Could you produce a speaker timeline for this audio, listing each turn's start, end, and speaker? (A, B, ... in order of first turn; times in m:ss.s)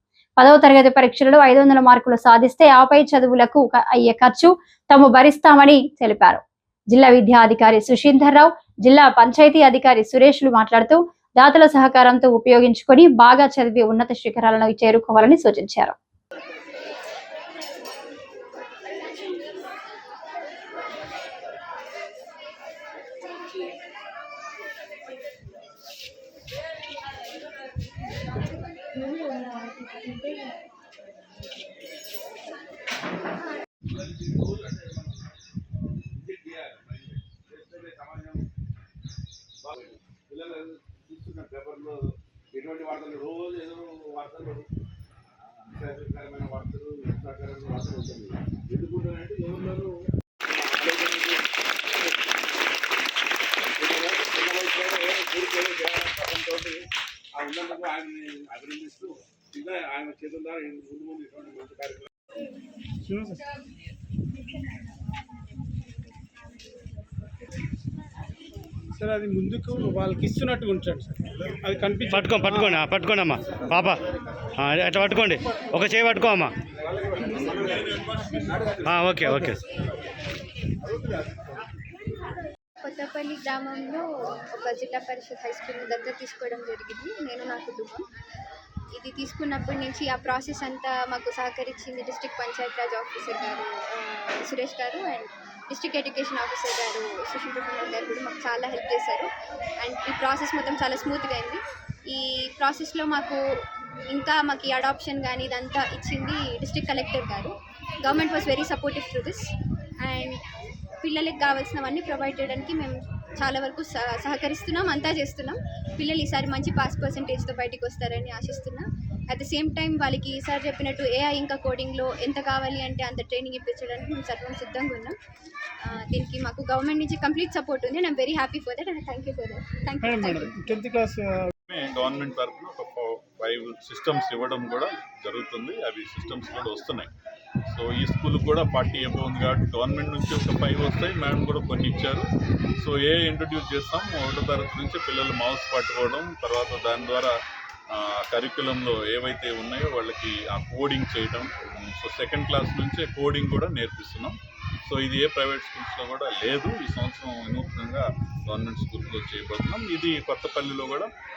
0:00.4-0:16.0 A
0:33.9-0:35.4 B
0:35.9-0:38.5 B
0:39.6-0:44.7 B
0:45.7-0:49.9 B
0:50.5-0:52.2 B
0:53.8-1:02.1 B
1:03.0-1:03.4 C
1:09.0-1:12.8 C
1:12.1-1:14.0 D
1:14.6-1:16.6 D
1:18.8-1:19.6 D
1:22.8-1:28.1 E
1:29.0-1:39.3 E
1:39.8-1:49.5 E
1:50.0-1:50.4 E
1:51.0-2:05.2 E
2:05.8-2:10.6 E
2:10.0-2:11.5 C
2:11.7-2:17.1 F
2:17.7-2:22.3 F
2:22.8-2:27.3 F
2:27.9-2:41.1 F